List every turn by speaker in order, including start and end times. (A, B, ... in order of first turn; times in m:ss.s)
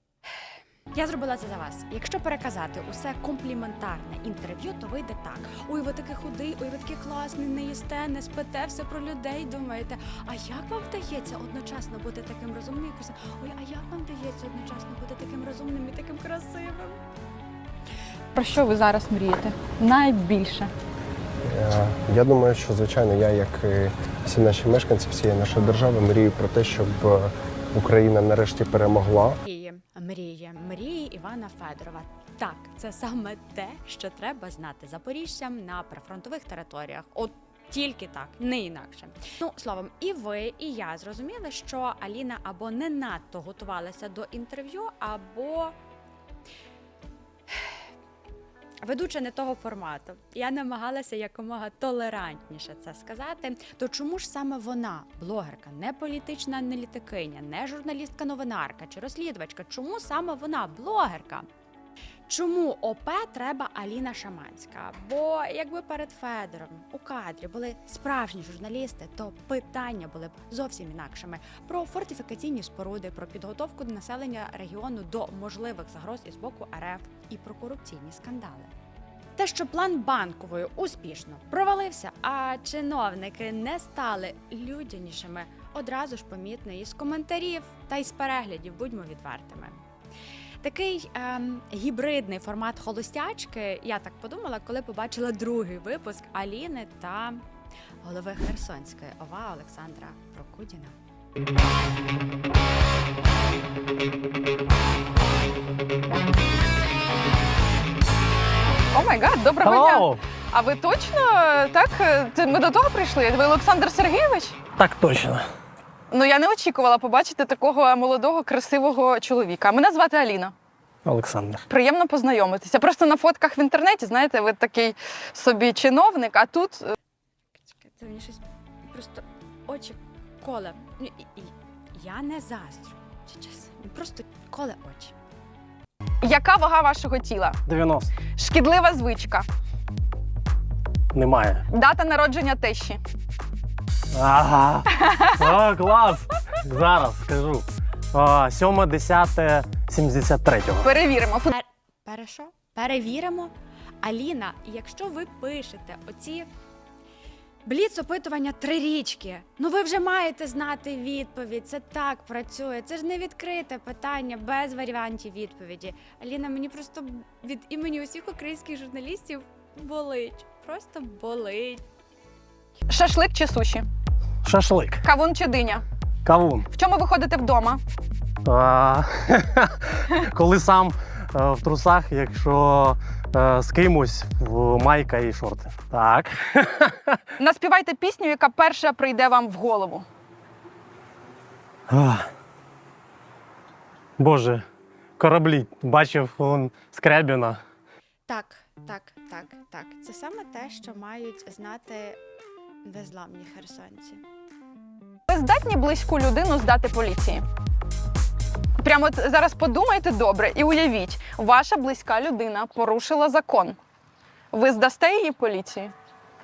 0:00.9-0:17.0 A
0:18.4-0:20.7 B
0:21.4-0:29.4 C
0:29.5-0:45.8 A
0:48.8-1:01.5 A
1:02.3-1:18.7 A
1:19.4-1:29.8 A
1:30.6-1:37.5 A
1:38.0-1:41.0 A
1:48.9-1:54.6 B
1:49.6-1:50.2 D
1:54.8-1:55.4 D
1:56.1-2:00.5 B
2:01.0-2:01.6 D
2:01.7-2:06.9 B
2:07.6-2:15.2 A
2:16.2-2:17.6 B
2:17.7-2:18.1 D
2:18.4-2:19.5 B
2:21.1-2:21.6 D
2:21.7-2:23.0 B
2:24.2-2:30.9 D
2:30.8-2:31.5 B
2:31.5-2:36.5 A
2:37.6-2:51.8 A
2:52.9-2:53.8 B
2:54.4-2:55.0 D
2:55.0-2:55.8 B
2:56.2-2:56.7 D
2:56.7-2:57.8 B
2:58.5-3:07.2 D
3:07.4-3:10.1 B
3:11.9-3:12.3 D
3:14.2-3:14.6 D
3:15.2-3:17.6 D
3:18.3-3:22.2 A
3:22.8-3:24.2 A
3:25.3-3:27.4 B
3:28.8-3:33.8 B
3:34.5-3:35.9 B